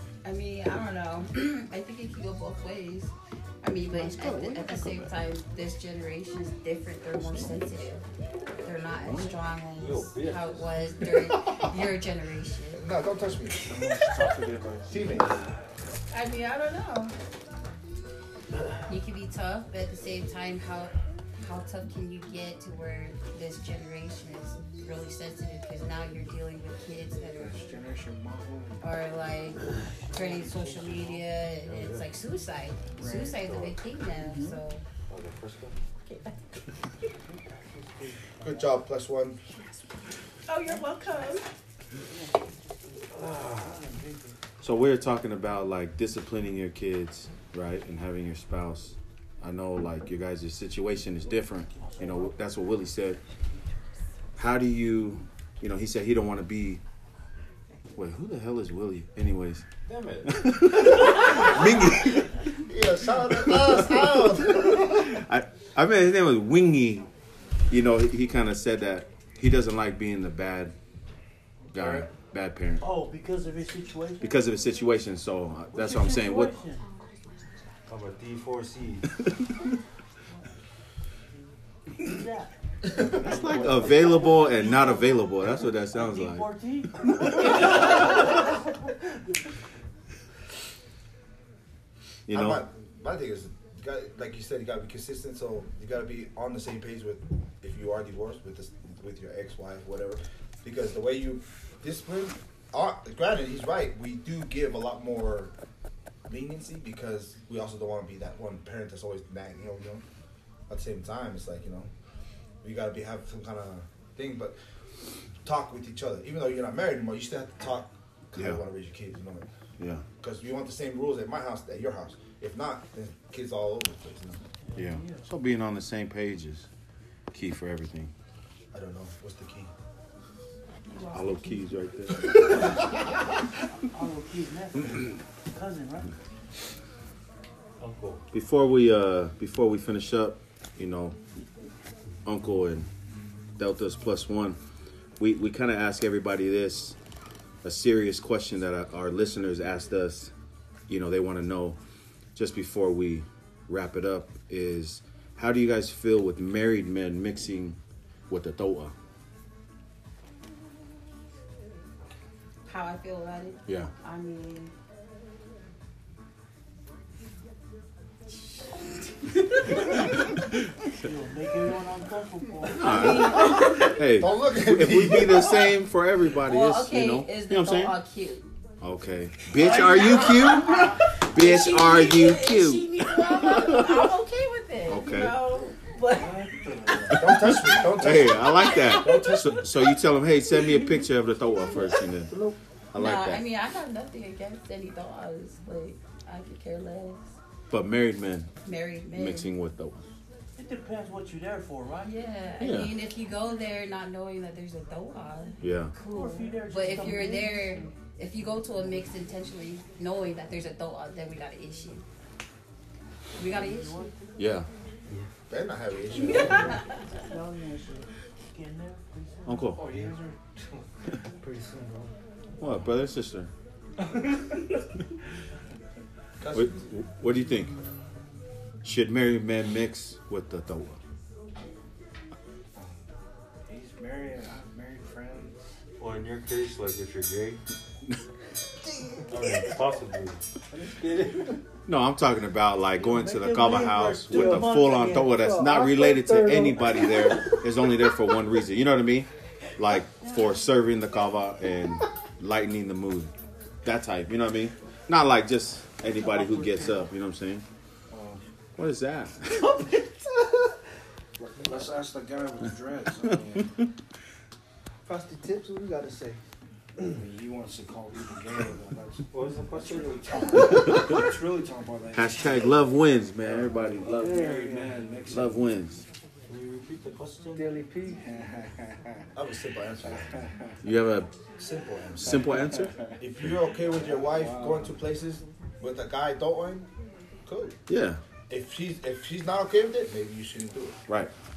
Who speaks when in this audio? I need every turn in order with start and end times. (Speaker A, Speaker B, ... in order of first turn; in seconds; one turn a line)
Speaker A: 0.2-8.0
Speaker B: 3.8-5.1
Speaker B: 7.2-7.6
Speaker A: 8.6-12.8
Speaker B: 9.0-9.4
Speaker C: 9.8-10.7
Speaker D: 12.7-13.8
Speaker C: 13.7-15.3
Speaker D: 14.9-15.4
Speaker A: 16.1-17.1
Speaker A: 18.9-27.6
Speaker E: 27.3-28.8
Speaker A: 28.8-34.8
Speaker F: 30.1-31.3
Speaker C: 31.6-32.1
Speaker E: 33.0-33.5
Speaker C: 33.3-33.8
Speaker F: 34.1-34.6
Speaker C: 35.1-35.7
Speaker A: 36.0-36.3
Speaker F: 37.2-38.8
Speaker D: 38.4-39.4
Speaker A: 40.5-41.5
Speaker F: 42.1-44.4
Speaker B: 44.6-53.2
Speaker F: 51.8-52.3
Speaker B: 54.4-56.8
Speaker B: 58.0-59.6
Speaker C: 59.9-60.3
Speaker B: 60.2-62.4
Speaker D: 62.6-65.1
Speaker B: 63.3-67.1
Speaker B: 67.7-70.7
Speaker B: 71.7-72.8
Speaker F: 72.8-74.4
Speaker B: 74.2-76.5
Speaker F: 75.7-76.9
Speaker C: 77.9-79.0
Speaker F: 81.9-82.6
Speaker C: 83.0-84.3
Speaker B: 83.1-86.5
Speaker F: 84.5-85.0
Speaker F: 85.9-88.4
Speaker B: 92.3-92.6
Speaker D: 92.3-105.5
Speaker D: 106.3-110.0
Speaker D: 110.7-111.9
Speaker D: 112.6-114.5
Speaker D: 115.4-119.5
Speaker B: 118.3-118.6
Speaker B: 119.8-120.0
Speaker D: 120.2-124.4
Speaker F: 124.7-125.2
Speaker B: 124.7-126.7
Speaker B: 127.3-128.1
Speaker D: 128.7-129.7
Speaker A: 130.9-131.8
Speaker B: 131.1-132.8
Speaker F: 133.8-136.1
Speaker C: 137.8-138.2
Speaker B: 138.3-141.2
Speaker B: 142.2-142.9
Speaker B: 143.6-144.6
Speaker B: 145.2-147.0
Speaker B: 147.6-150.3
Speaker B: 150.9-151.8
Speaker B: 152.3-157.8
Speaker B: 158.3-158.9
Speaker A: 162.7-164.7
Speaker A: 169.3-169.9
Speaker F: 171.0-173.1
Speaker B: 172.7-178.0
Speaker A: 172.8-174.0
Speaker D: 173.5-175.8
Speaker A: 176.3-178.5
Speaker B: 178.8-184.1
Speaker A: 179.6-186.5
Speaker B: 184.9-185.4
Speaker E: 186.1-187.7
Speaker D: 187.1-189.6
Speaker B: 187.1-192.3
Speaker A: 188.4-189.9
Speaker A: 191.7-192.1
Speaker B: 192.9-193.4
Speaker A: 192.9-197.3
Speaker B: 197.7-198.5
Speaker A: 198.6-199.5
Speaker B: 199.1-200.0
Speaker F: 200.6-202.3
Speaker A: 202.1-212.0
Speaker B: 202.6-202.9
Speaker B: 205.6-205.9
Speaker F: 206.1-207.8
Speaker A: 213.3-214.1
Speaker F: 213.4-214.4
Speaker B: 214.4-214.7
Speaker D: 215.5-216.8
Speaker A: 216.1-217.0
Speaker F: 217.1-219.7
Speaker B: 219.4-219.8
Speaker E: 219.6-220.8
Speaker G: 221.4-222.1
Speaker B: 222.6-223.5
Speaker D: 226.4-226.7
Speaker B: 226.5-227.7
Speaker B: 228.8-231.0
Speaker E: 233.7-235.7
Speaker C: 236.0-237.6
Speaker C: 239.3-240.4
Speaker E: 240.7-241.5
Speaker B: 241.9-253.3
Speaker G: 243.3-247.2
Speaker F: 243.3-245.4
Speaker B: 253.8-257.6
Speaker G: 256.5-256.9
Speaker E: 258.1-258.4
Speaker B: 258.8-259.7
Speaker G: 259.6-260.7
Speaker E: 261.4-263.7
Speaker G: 265.0-266.4
Speaker E: 267.1-275.7
Speaker C: 269.3-270.2
Speaker B: 272.1-274.4
Speaker G: 274.2-275.0
Speaker B: 275.3-276.0
Speaker C: 276.5-277.6
Speaker G: 277.5-278.2
Speaker E: 278.2-278.9
Speaker D: 279.3-280.3
Speaker E: 280.0-280.5
Speaker B: 280.8-281.3
Speaker D: 281.6-282.3
Speaker E: 282.0-283.1
Speaker B: 282.1-282.9
Speaker D: 283.2-286.9
Speaker E: 283.8-285.0
Speaker D: 287.4-287.8
Speaker B: 287.9-288.2
Speaker D: 288.5-291.0